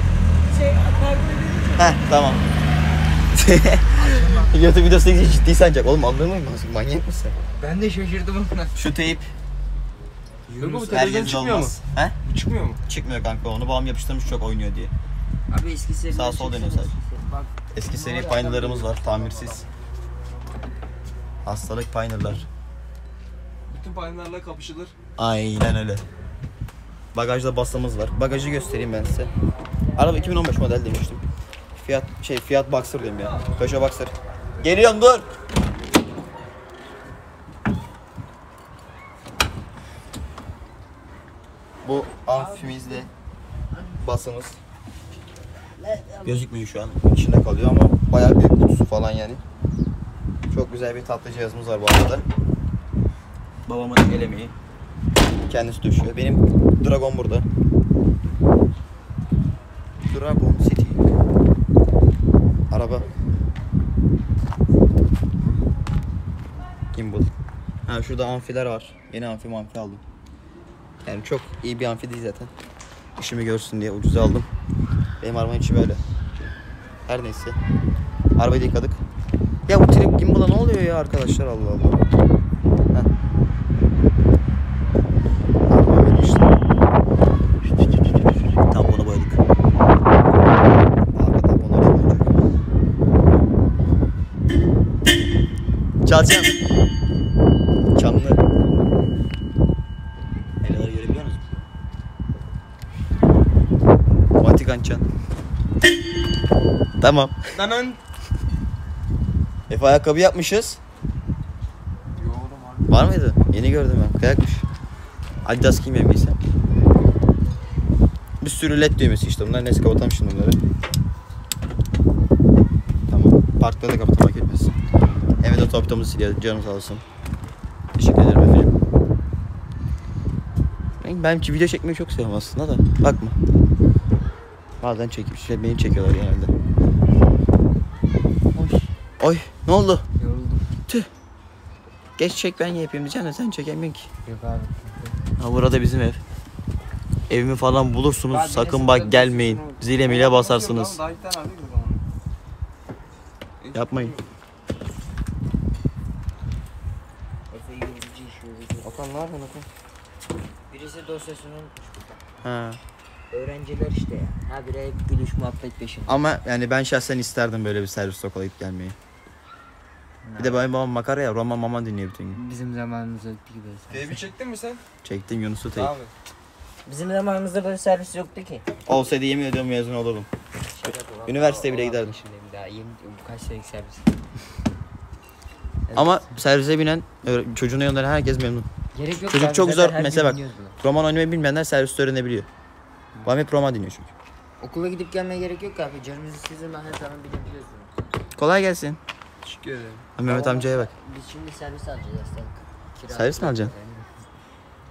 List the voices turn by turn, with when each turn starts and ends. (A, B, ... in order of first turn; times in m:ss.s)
0:00.6-0:01.8 A
0:01.8-0:02.4 B
0:03.3-0:07.4 B
0:04.0-0:04.6 A
0:07.6-0:08.9 A
0:08.8-0:09.3 B
0:10.5-0:11.1 A
0:10.6-0:12.8 C
0:10.9-0:12.2 B
0:12.9-0:14.9 B
0:15.5-0:19.5 A
0:16.1-0:16.9 B
0:17.7-0:19.6 B
0:21.4-0:22.5 B
0:23.7-0:24.9 C
0:25.2-0:26.0 B
0:27.1-0:29.3 B
0:30.0-0:31.2 B
0:31.8-0:35.3 B
0:41.8-0:43.1 B
0:42.4-0:43.0 A
0:44.0-0:44.6 B
0:45.8-0:46.4 A
0:46.2-0:49.4 B
0:50.5-0:52.2 B
0:53.7-0:54.5 B
0:55.5-0:57.5 B
1:00.1-1:01.0 B
1:02.7-1:03.1 B
1:06.9-1:07.3 B
1:07.9-1:10.0 B
1:11.0-1:12.5 B
1:13.2-1:14.5 B
1:15.2-1:16.0 B
1:17.1-1:17.6 B
1:18.4-1:19.0 B
1:19.7-1:22.0 B
1:25.7-1:26.6 B
1:28.7-1:29.4 B
1:31.1-1:32.3 B
1:36.0-1:36.5 B
1:38.0-1:38.4 B
1:40.6-1:41.4 B
1:44.4-1:45.0 B
1:47.0-1:47.4 B
1:47.5-1:48.0 C
1:49.7-1:50.8 B
1:52.2-1:53.0 C
1:52.9-1:54.6 B
1:55.4-1:56.4 B
1:58.4-2:00.6 B
2:03.1-2:04.8 B
2:05.4-2:07.0 B
2:08.0-2:08.7 B
2:11.0-2:13.4 B
2:14.8-2:16.5 B
2:18.6-2:18.9 A
2:19.2-2:20.0 B
2:20.2-2:20.7 A
2:22.2-2:24.1 B
2:24.2-2:25.2 A
2:25.4-2:26.2 B
2:27.3-2:31.0 B
2:28.3-2:29.8 A
2:30.0-2:32.0 C
2:33.6-2:34.2 C
2:33.7-2:34.2 B
2:37.5-2:38.9 A
2:38.8-2:39.7 B
2:40.7-2:42.2 A
2:42.4-2:42.8 B
2:43.3-2:46.2 A
2:46.1-2:49.0 B
2:50.2-2:50.6 A
2:50.4-2:52.4 B
2:52.3-2:54.2 A
2:53.9-2:54.8 C
2:55.0-2:55.9 B
2:55.8-2:56.1 C
2:56.9-2:58.7 A
2:58.9-3:00.3 B
3:00.7-3:04.1 A
3:01.3-3:02.2 B
3:05.9-3:06.2 A
3:05.9-3:08.7 B
3:09.0-3:10.8 A
3:09.3-3:12.5 B
3:13.2-3:14.1 B
3:14.6-3:17.9 A
3:18.4-3:19.0 B
3:19.4-3:20.1 C
3:20.2-3:20.9 B
3:20.2-3:24.1 A
3:23.1-3:23.7 B